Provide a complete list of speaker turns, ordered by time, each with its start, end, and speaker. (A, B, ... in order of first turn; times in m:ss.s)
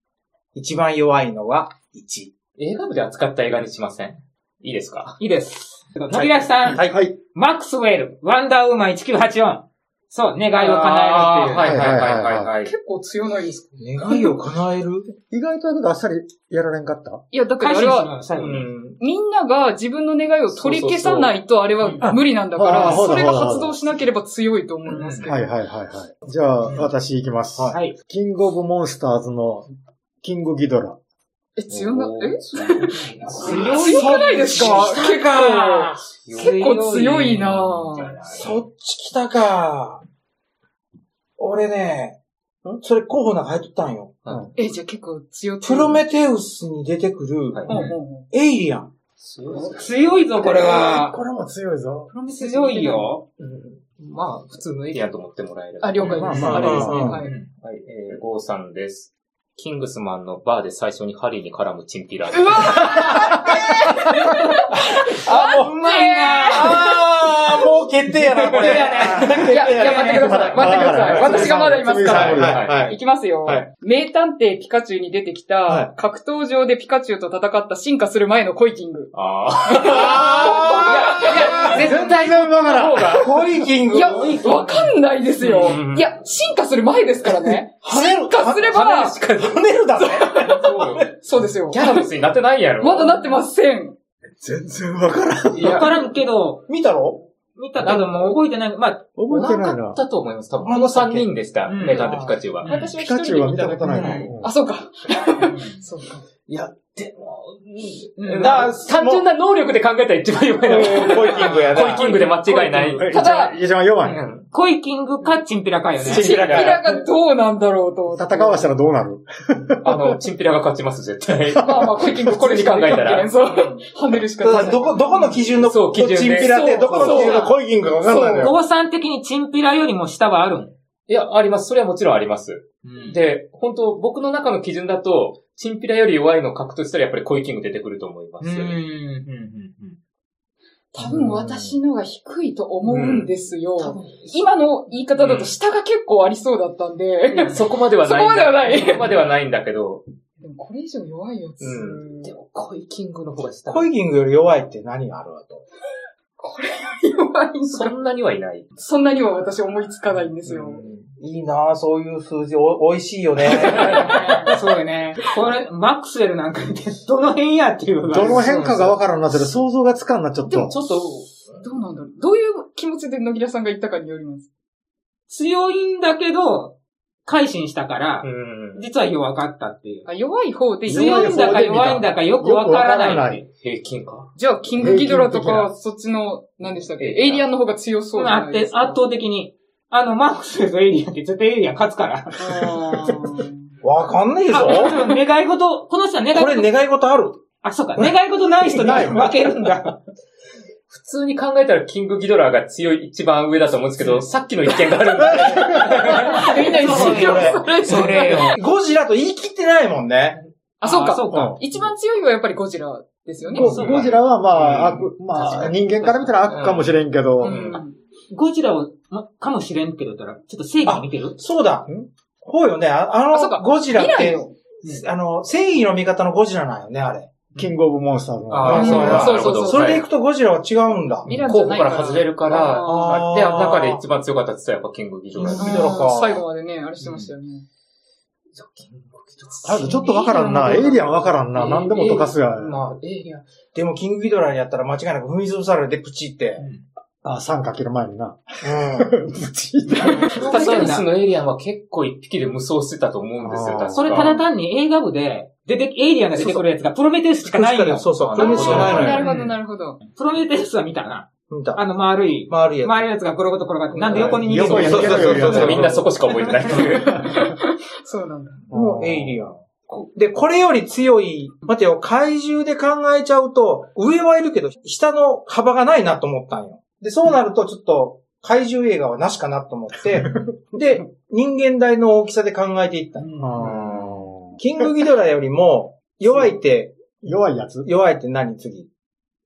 0:00.5-0:02.3 A
0:02.6-0:05.2 B
0:05.2-0:11.6 C
0:06.1-0:07.0 A
0:06.8-0:07.1 D
0:10.6-0:12.7 B
0:11.6-0:12.5 D
0:12.6-0:14.4 E
0:13.8-0:15.1 A
0:15.2-0:17.2 D
0:17.3-0:18.1 E
0:17.6-0:18.7 C
0:18.3-0:19.0 B
0:19.0-0:25.4 E
0:20.5-0:21.3 B
0:21.8-0:22.1 C
0:22.1-0:23.8 D
0:24.8-0:25.3 C
0:25.3-0:29.7 D
0:30.2-0:31.0 D
0:31.6-0:38.2 E
0:31.7-0:34.0 B
0:32.9-0:38.6 C
0:33.3-0:34.9 A
0:38.3-0:40.0 A
0:41.4-0:44.2 A
0:44.6-0:46.0 E
0:45.6-0:47.8 A
0:47.7-0:48.0 C
0:47.7-0:48.3 E
0:48.3-0:48.9 A
0:49.2-0:49.9 B
0:49.5-0:51.2 C
0:50.4-0:52.1 D
0:52.1-0:53.2 E
0:52.3-0:53.2 C
0:53.4-1:03.1 B
0:55.8-0:57.3 E
0:56.0-0:57.5 C
0:56.2-0:56.9 D
0:56.4-0:57.2 A
1:02.3-1:07.5 E
1:04.8-1:05.7 A
1:05.2-1:06.8 C
1:06.5-1:13.7 A
1:08.5-1:10.3 C
1:09.1-1:22.0 E
1:10.1-1:12.7 D
1:12.1-1:12.9 B
1:19.1-1:23.5 B
1:19.8-1:22.0 A
1:20.7-1:22.1 C
1:21.4-1:23.2 D
1:23.0-1:24.4 A
1:23.9-1:29.2 E
1:23.9-1:24.9 C
1:25.4-1:26.1 B
1:27.8-1:31.0 A
1:28.7-1:29.7 B
1:30.0-1:32.1 E
1:30.4-1:31.1 B
1:31.7-1:33.3 B
1:32.8-1:33.9 E
1:34.4-1:35.8 D
1:35.1-1:36.0 A
1:35.5-1:36.7 C
1:36.7-1:37.3 A
1:37.5-1:39.0 C
1:37.8-1:38.3 A
1:39.2-1:40.0 D
1:39.3-1:42.7 B
1:40.6-1:41.3 A
1:41.7-1:42.9 C
1:41.9-1:42.3 A
1:42.0-1:46.2 E
1:43.0-1:44.5 D
1:43.8-1:44.3 C
1:45.4-1:45.8 C
1:46.7-1:53.1 B
1:48.2-1:48.6 C
1:48.4-1:49.2 A
1:50.6-1:52.2 A
1:51.2-1:52.3 C
1:52.6-1:54.2 D
1:53.0-1:53.6 E
1:54.0-1:54.5 B
1:54.5-1:56.4 C
1:56.0-1:57.0 B
1:56.0-1:56.8 A
1:56.3-1:58.7 E
1:58.1-2:00.2 D
1:59.8-2:03.3 B
2:01.6-2:01.9 D
2:01.6-2:05.4 E
2:04.4-2:08.5 A
2:05.6-2:07.4 B
2:06.4-2:08.5 E
2:08.1-2:08.4 D
2:08.4-2:10.7 C
2:11.1-2:18.8 B
2:12.8-2:13.2 C
2:18.4-2:20.0 C
2:20.9-2:29.2 E
2:21.0-2:21.8 D
2:22.9-2:24.3 B
2:25.2-2:25.5 B
2:27.4-2:30.0 B
2:30.4-2:32.3 E
2:31.6-2:33.9 B
2:33.7-2:35.6 A
2:36.4-2:37.9 E
2:37.6-2:38.7 B
2:38.8-2:40.8 E
2:40.4-2:41.1 B
2:41.2-2:44.2 A
2:43.6-2:44.6 E
2:43.7-2:48.5 C
2:48.0-2:50.8 D
2:48.2-2:49.0 B
2:50.4-2:51.7 B
2:51.6-2:54.5 E
2:55.3-3:00.1 C
2:58.2-2:58.9 B
3:00.0-3:01.6 E
3:00.8-3:03.4 D
3:00.8-3:03.4 C
3:03.5-3:04.3 B
3:04.4-3:09.0 E
3:04.7-3:05.7 D
3:07.0-3:07.4 B
3:08.1-3:12.7 C
3:12.4-3:13.6 E
3:13.8-3:15.0 A
3:14.5-3:16.7 C
3:16.3-3:17.4 A
3:17.6-3:20.0 C
3:18.8-3:19.3 D
3:20.9-3:26.5 B
3:25.3-3:26.2 D
3:25.8-3:28.6 E
3:26.0-3:28.6 C
3:26.8-3:30.4 A
3:27.0-3:27.6 D
3:30.8-3:33.9 E
3:30.8-3:31.6 C
3:31.3-3:31.6 D
3:33.5-3:37.8 D
3:33.6-3:35.7 B
3:33.6-3:34.0 C
3:35.4-3:36.3 C
3:36.4-3:37.8 B
3:37.4-3:38.0 E
3:38.3-3:41.4 C
3:40.8-3:41.9 A
3:42.4-3:47.4 A
3:43.3-3:44.4 E
3:47.5-3:49.3 D
3:48.5-3:50.0 B
3:48.6-3:51.3 A
3:48.8-3:49.2 C
3:48.8-3:50.0 E
3:51.2-3:53.3 E
3:51.3-3:56.0 B
3:52.8-3:54.0 A
3:55.3-3:56.4 A
3:55.4-3:57.6 E
3:57.0-3:57.3 B
3:58.5-4:00.0 B
3:59.6-4:02.8 D
3:59.8-4:01.1 C
4:01.5-4:03.4 B
4:03.7-4:06.6 A
4:06.6-4:06.8 C
4:07.2-4:10.4 D
4:08.6-4:09.1 A
4:10.0-4:11.0 C
4:10.3-4:14.4 B
4:10.4-4:11.0 E
4:13.4-4:14.4 D
4:14.0-4:25.8 C
4:16.4-4:16.6 A
4:17.4-4:19.2 A
4:18.3-4:19.2 B
4:18.3-4:20.0 E
4:21.5-4:21.8 A
4:22.5-4:23.0 A
4:24.0-4:26.1 A
4:24.1-4:26.0 D
4:24.8-4:27.3 B
4:26.7-4:28.7 E
4:28.7-4:29.4 D
4:28.7-4:47.1 A
4:40.1-4:40.4 D
4:43.2-4:43.8 C
4:43.4-4:44.9 D
4:47.2-4:47.9 D
4:47.8-4:48.9 A